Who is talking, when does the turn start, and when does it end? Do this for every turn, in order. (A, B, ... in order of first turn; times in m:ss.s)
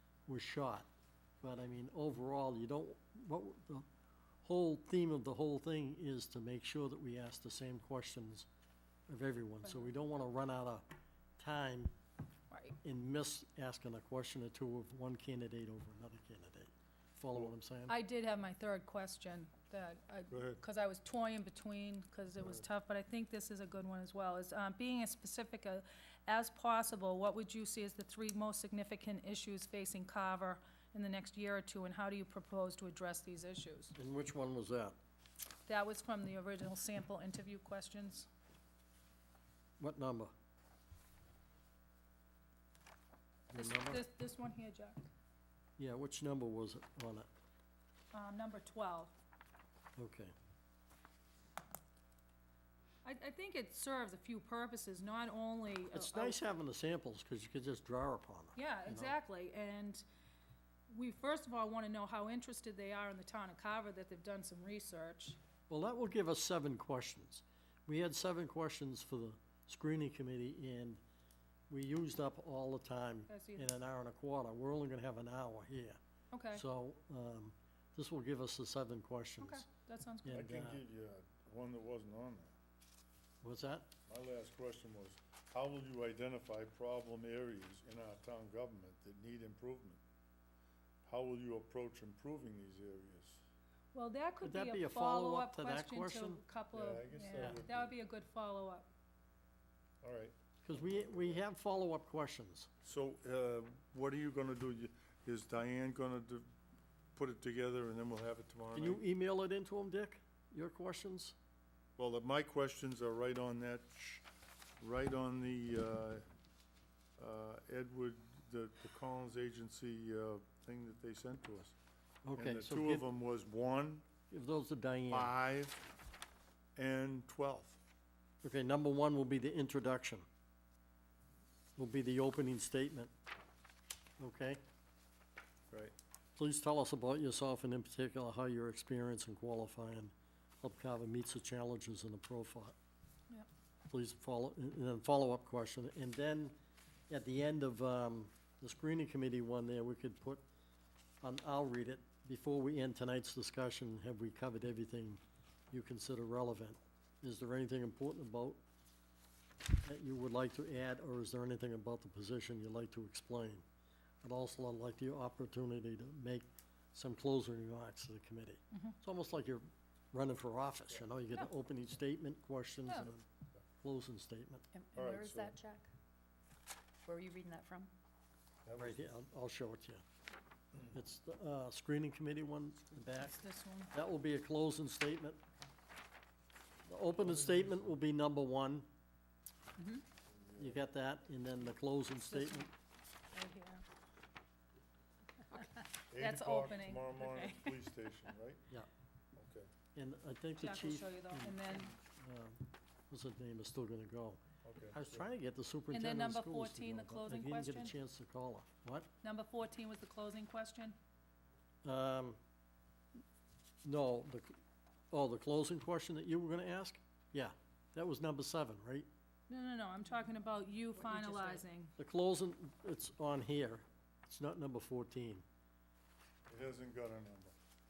0:00.3-0:00.9 A
0:01.4-0:03.9 A
0:04.4-0:08.5 A
0:09.1-0:10.9 A
0:09.6-0:09.9 B
0:11.4-0:11.9 A
0:12.5-0:12.8 B
0:12.8-0:18.0 A
0:17.9-0:33.9 B
0:20.3-0:20.6 C
0:34.0-0:35.0 A
0:35.7-0:38.3 B
0:39.8-0:40.3 A
0:43.5-0:44.1 A
0:43.5-0:45.1 B
0:45.8-0:47.3 A
0:48.1-0:49.1 B
0:50.0-0:50.3 A
0:53.0-0:56.4 B
0:55.9-0:59.2 A
0:58.6-1:00.1 B
1:00.9-1:05.4 B
1:05.7-1:11.0 A
1:11.7-1:16.0 A
1:13.3-1:13.7 B
1:16.3-1:16.6 B
1:16.5-1:19.7 A
1:19.4-1:20.4 B
1:20.2-1:20.8 A
1:20.3-1:22.6 C
1:23.4-1:23.9 A
1:24.1-1:30.0 C
1:31.0-1:33.4 C
1:33.9-1:38.9 B
1:34.4-1:36.4 A
1:36.7-1:37.9 C
1:37.4-1:37.6 A
1:40.0-1:41.4 C
1:40.6-1:42.7 A
1:42.8-1:46.5 C
1:47.2-1:49.0 C
1:48.7-1:51.4 A
1:52.0-1:54.2 C
1:54.8-1:56.2 C
1:57.2-2:01.8 C
2:02.2-2:03.1 A
2:02.4-2:04.1 C
2:04.3-2:05.3 A
2:05.1-2:05.9 C
2:06.8-2:07.8 C
2:08.4-2:10.2 A
2:11.8-2:13.1 A
2:14.2-2:14.6 A
2:16.4-2:22.8 A
2:23.9-2:26.6 A
2:27.1-2:30.4 A
2:31.2-2:38.6 A
2:39.8-2:43.6 A
2:44.2-2:53.2 A
2:53.8-2:54.6 A
2:54.7-2:55.9 D
2:55.0-2:55.6 C
2:57.0-2:57.9 D
2:58.6-2:59.1 C
2:58.8-3:00.0 A
3:00.9-3:03.4 A
3:03.2-3:03.9 B
3:03.9-3:05.4 A
3:06.9-3:08.9 A
3:07.2-3:07.8 C
3:10.3-3:10.8 C
3:10.6-3:12.7 A
3:12.2-3:12.7 B
3:13.3-3:13.8 B
3:16.1-3:18.6 C
3:16.2-3:17.5 B
3:17.5-3:17.8 D
3:19.4-3:19.7 C
3:20.0-3:24.4 A
3:20.6-3:21.9 B
3:24.6-3:25.3 C
3:24.9-3:29.1 A
3:25.9-3:28.0 B
3:29.2-3:31.0 B
3:31.8-3:32.4 A
3:33.8-3:34.6 A
3:35.1-3:39.1 A
3:39.5-3:41.9 B
3:41.1-3:41.6 D
3:42.0-3:45.4 A
3:46.5-3:47.6 C